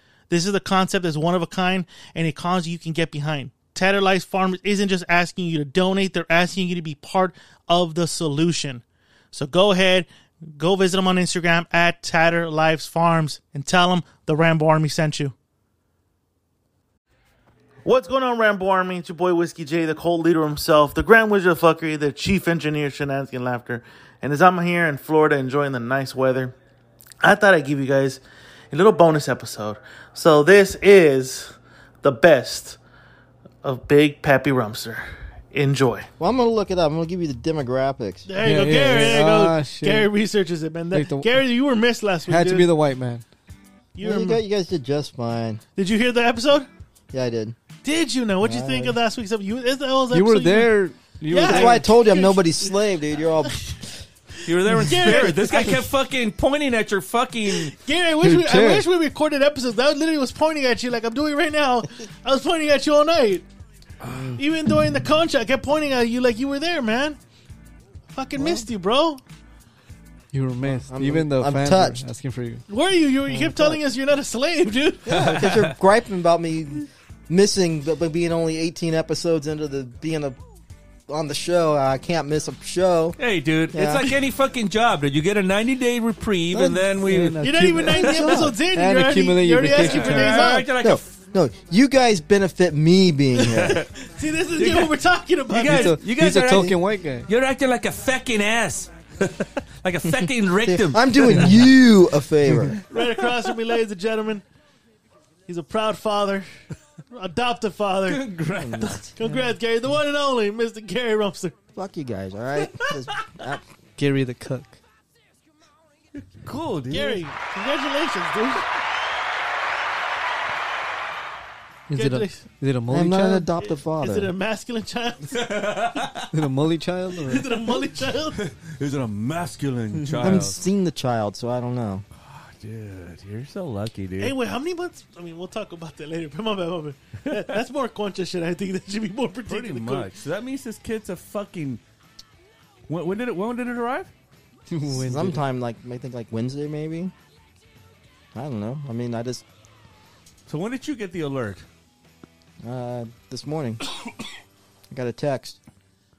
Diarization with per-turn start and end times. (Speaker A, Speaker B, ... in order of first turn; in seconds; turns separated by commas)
Speaker A: 0.3-15.3, Speaker A: 17.9-26.6, Speaker A: 27.2-28.2, Speaker A: 28.7-32.8, Speaker A: 33.6-36.1, Speaker B: 36.2-38.3, Speaker A: 38.3-42.7, Speaker C: 38.4-40.1, Speaker C: 40.9-41.3, Speaker C: 42.3-43.2, Speaker A: 44.0-44.4, Speaker B: 44.0-45.6, Speaker A: 45.8-46.7, Speaker B: 47.1-47.5, Speaker A: 47.8-50.8, Speaker C: 48.5-49.0, Speaker C: 50.1-51.9, Speaker A: 51.3-52.9, Speaker B: 51.4-53.6, Speaker A: 53.5-53.7, Speaker A: 54.5-55.9, Speaker D: 54.5-57.7, Speaker A: 57.5-63.5, Speaker C: 58.2-58.9, Speaker D: 64.0-64.4, Speaker A: 64.3-67.2, Speaker A: 68.1-69.2, Speaker B: 68.3-68.7, Speaker C: 70.3-72.7, Speaker B: 70.7-72.0, Speaker A: 72.7-75.3, Speaker B: 73.3-73.8, Speaker B: 75.1-80.4, Speaker D: 75.1-75.8, Speaker B: 81.1-83.2, Speaker D: 83.2-87.4, Speaker B: 83.7-84.1, Speaker B: 86.5-86.9, Speaker C: 87.0-90.5, Speaker A: 87.4-90.7, Speaker B: 88.0-88.5, Speaker D: 89.7-91.1, Speaker B: 90.7-93.8, Speaker A: 93.4-96.0, Speaker D: 93.6-93.9, Speaker D: 94.5-94.9, Speaker D: 95.5-101.5, Speaker C: 95.6-97.3, Speaker B: 100.6-102.8, Speaker A: 102.9-104.4, Speaker A: 105.5-106.5, Speaker A: 107.1-108.2, Speaker D: 108.1-109.1, Speaker B: 108.6-109.1, Speaker A: 109.2-111.5, Speaker B: 111.8-113.6, Speaker C: 114.0-114.8, Speaker D: 116.2-117.2, Speaker A: 116.9-118.7, Speaker C: 121.9-123.5, Speaker A: 121.9-122.4, Speaker B: 122.9-124.3, Speaker A: 123.6-125.5, Speaker D: 125.3-126.3, Speaker C: 126.3-127.6, Speaker A: 127.2-128.4, Speaker D: 128.4-130.6, Speaker C: 130.0-130.4, Speaker B: 130.2-132.1, Speaker D: 132.2-134.3, Speaker A: 134.2-140.1, Speaker D: 139.5-141.8, Speaker D: 142.9-144.1, Speaker C: 144.7-145.4, Speaker B: 144.9-147.1, Speaker B: 148.3-149.4, Speaker D: 150.5-151.6, Speaker B: 152.6-153.8, Speaker B: 154.9-155.6